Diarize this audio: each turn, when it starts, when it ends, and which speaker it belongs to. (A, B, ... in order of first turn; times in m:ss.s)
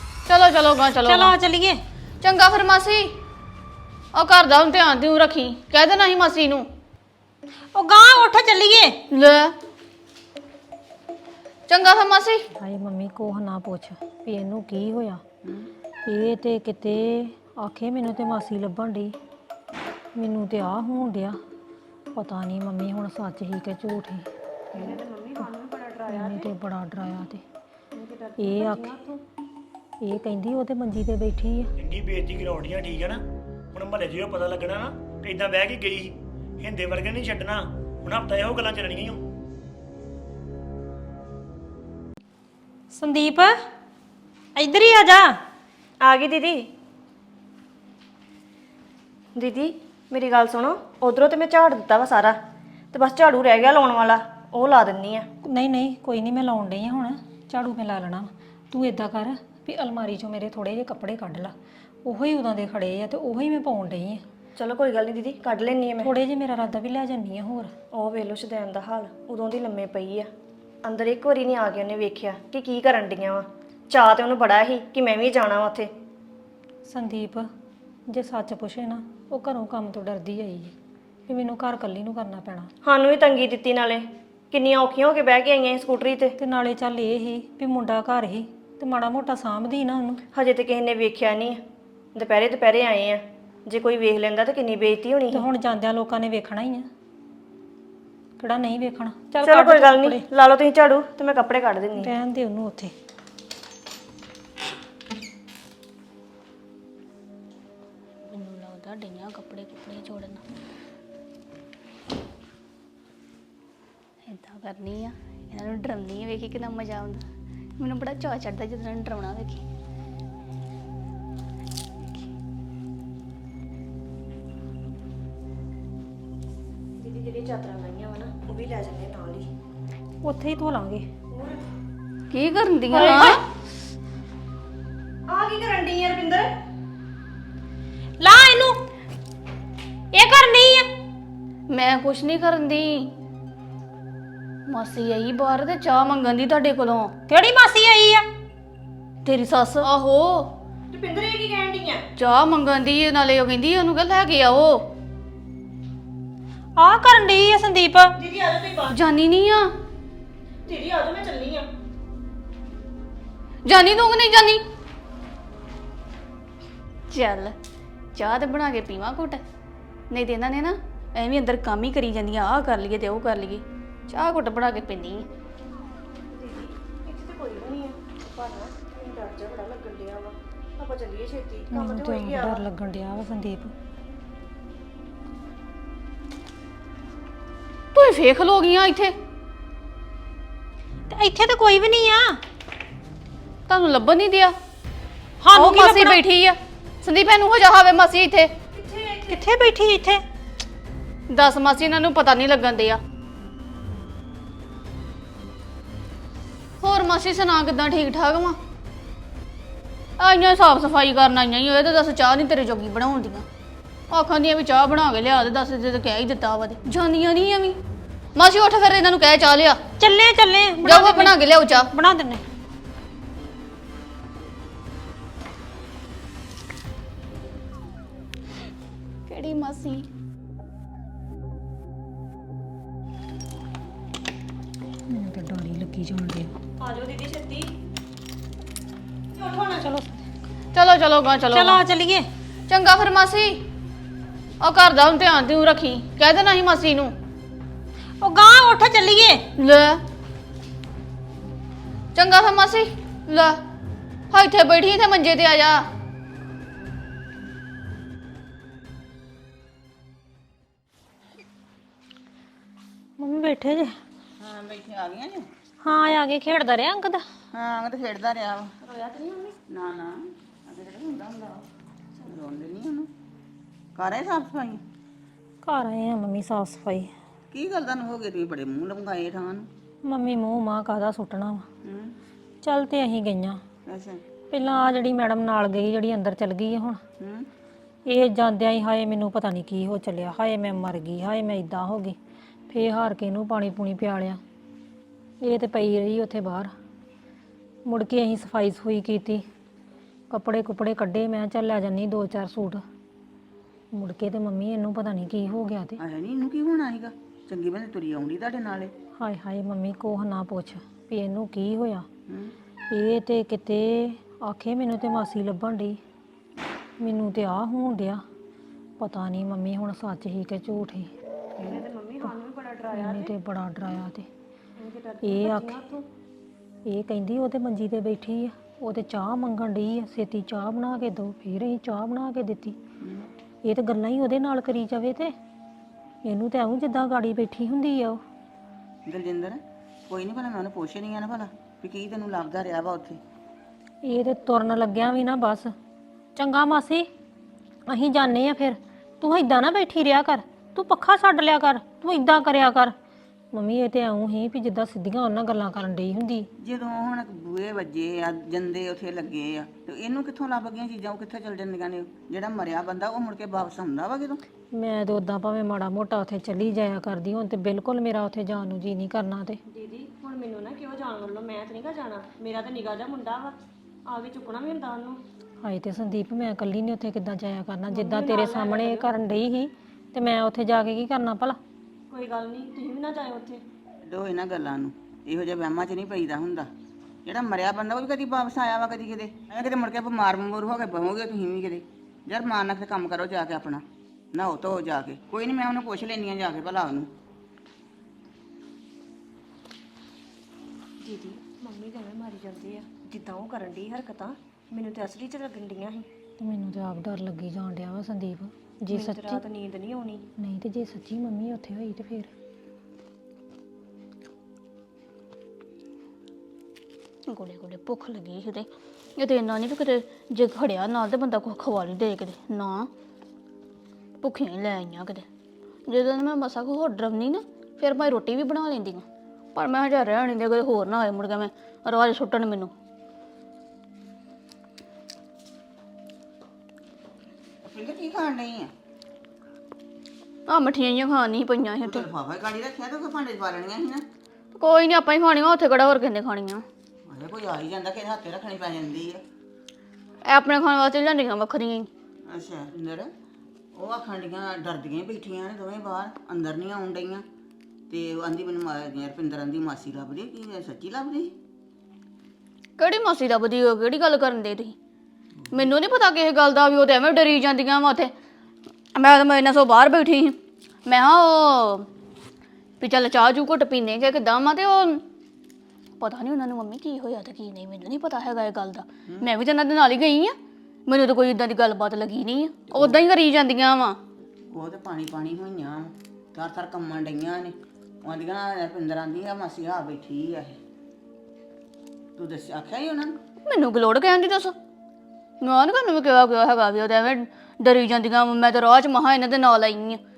0:00.3-0:01.4 A
0:01.0-0:01.8 B
0:02.2-0:03.1 A
0:04.1-0:06.7 A
0:07.7-0:09.0 B
0:09.1-0:09.5 A
0:11.7-0:12.4 A
0:12.6-0:15.2 B
0:15.4-0:15.7 C
0:16.1-0:19.1 B
0:20.2-0:21.4 B
0:22.1-0:24.2 B
0:24.7-0:26.5 D
0:26.1-0:27.4 B
0:27.9-0:29.0 D
0:28.4-0:29.2 B
0:30.0-0:31.7 B
0:31.8-0:33.2 E
0:33.7-0:39.2 E
0:42.9-0:43.6 B
0:44.6-0:45.4 B
0:46.0-0:46.7 D
0:49.3-0:52.4 D
0:52.9-0:55.3 D
0:55.4-1:04.2 B
1:04.6-1:06.1 D
1:06.0-1:07.7 B
1:07.9-1:10.3 D
1:10.8-1:15.9 D
1:16.8-1:17.5 B
1:18.1-1:20.8 B
1:21.3-1:22.7 B
1:22.8-1:26.3 D
1:26.4-1:30.2 B
1:30.3-1:31.6 D
1:32.1-1:35.5 D
1:35.3-1:36.9 B
1:38.4-1:40.2 B
1:39.4-1:42.1 D
1:42.0-1:42.9 B
1:48.3-1:50.4 A
1:54.2-1:57.2 A
1:57.8-1:59.6 A
2:07.0-2:09.5 D
2:10.2-2:11.0 B
2:11.3-2:11.6 D
2:12.3-2:13.4 A
2:12.9-2:13.4 D
2:15.3-2:16.5 D
2:18.2-2:18.8 B
2:20.1-2:20.9 B
2:21.7-2:23.1 A
2:24.7-2:27.1 A
2:27.3-2:28.2 B
2:29.2-2:30.5 A
2:30.9-2:32.0 D
2:32.2-2:34.8 A
2:36.8-2:38.2 B
2:38.2-2:39.0 D
2:38.9-2:39.7 A
2:40.7-2:41.7 D
2:43.7-2:44.6 A
2:47.1-2:47.5 A
2:48.2-2:49.4 A
2:50.1-2:55.2 A
2:56.3-3:02.6 D
3:01.7-3:03.7 B
3:07.9-3:09.1 A
3:11.1-3:12.4 B
3:13.7-3:14.5 A
3:15.4-3:16.2 B
3:15.5-3:18.5 A
3:18.7-3:19.5 D
3:19.3-3:20.2 B
3:21.3-3:23.0 A
3:26.8-3:28.6 A
3:30.2-3:33.4 A
3:34.1-3:37.8 A
3:38.4-3:39.8 A
3:40.0-3:41.4 B
3:40.8-3:41.9 A
3:41.9-3:42.4 B
3:49.3-3:50.0 A
3:55.1-3:56.5 B
3:56.8-3:57.7 D
3:59.4-3:59.8 D
3:59.8-4:00.2 B
4:00.7-4:01.8 A
4:01.5-4:02.3 B
4:02.7-4:03.6 A
4:04.6-4:07.1 A
4:08.2-4:09.4 B
4:09.6-4:10.0 A
4:12.2-4:13.6 A
4:14.3-4:15.8 A
4:23.2-4:23.9 B
4:24.4-4:25.5 C
4:25.8-4:27.2 B
4:27.5-4:28.8 C
4:28.8-4:29.6 D
4:29.7-4:31.7 C
4:32.2-4:33.1 C
4:33.9-4:34.8 C
4:35.6-4:37.1 B
4:37.5-4:39.7 C
4:40.0-4:41.7 B
4:41.8-4:42.2 C
4:42.6-4:43.6 B
4:43.9-4:44.2 C
4:44.5-4:47.0 B
4:47.2-4:47.5 C
4:48.1-4:52.2 B
4:52.7-4:54.4 B
4:55.4-4:56.7 B
4:57.9-4:59.4 B
5:00.3-5:02.8 B
5:03.9-5:06.0 B
5:06.0-5:08.9 C
5:09.2-5:12.1 B
5:12.3-5:12.6 C
5:12.9-5:16.0 B
5:17.0-5:18.2 B
5:19.0-5:22.3 B
5:21.6-5:23.3 D
5:22.9-5:24.3 B
5:24.8-5:26.0 D
5:25.2-5:25.8 B
5:26.9-5:32.8 B
5:33.0-5:33.3 C
5:33.6-5:35.3 B
5:36.2-5:38.2 B
5:39.1-5:43.2 C
5:44.0-5:45.7 B
5:46.4-5:47.1 B
5:47.9-5:52.9 B
5:53.5-5:56.5 B
5:56.6-6:04.4 C
6:04.8-6:09.6 B
6:09.7-6:13.6 D
6:14.1-6:15.2 D
6:15.6-6:21.6 B
6:17.9-6:19.1 D
6:22.1-6:23.6 D
6:24.1-6:26.7 C
6:27.2-6:37.1 C
6:41.0-6:46.1 D
6:46.4-6:49.4 B
6:48.9-6:50.2 D
6:50.4-6:52.3 B
6:57.3-7:02.9 A
7:04.2-7:05.2 A
7:05.9-7:12.7 A
7:17.6-7:18.7 C
7:20.5-7:22.1 A
7:21.8-7:24.1 C
7:24.6-7:26.6 A
7:27.1-7:29.2 C
7:30.2-7:31.9 A
7:32.3-7:33.1 C
7:33.8-7:37.2 C
7:37.9-7:41.3 C
7:42.8-7:44.8 A
7:45.5-7:48.1 A
7:48.9-7:50.4 A
7:50.9-7:51.9 A
7:52.8-7:55.0 A
7:56.0-8:00.4 A
8:00.9-8:04.0 A
8:02.7-8:03.0 C
8:04.5-8:10.6 C
8:12.2-8:13.2 C
8:13.5-8:14.6 A
8:15.4-8:20.0 A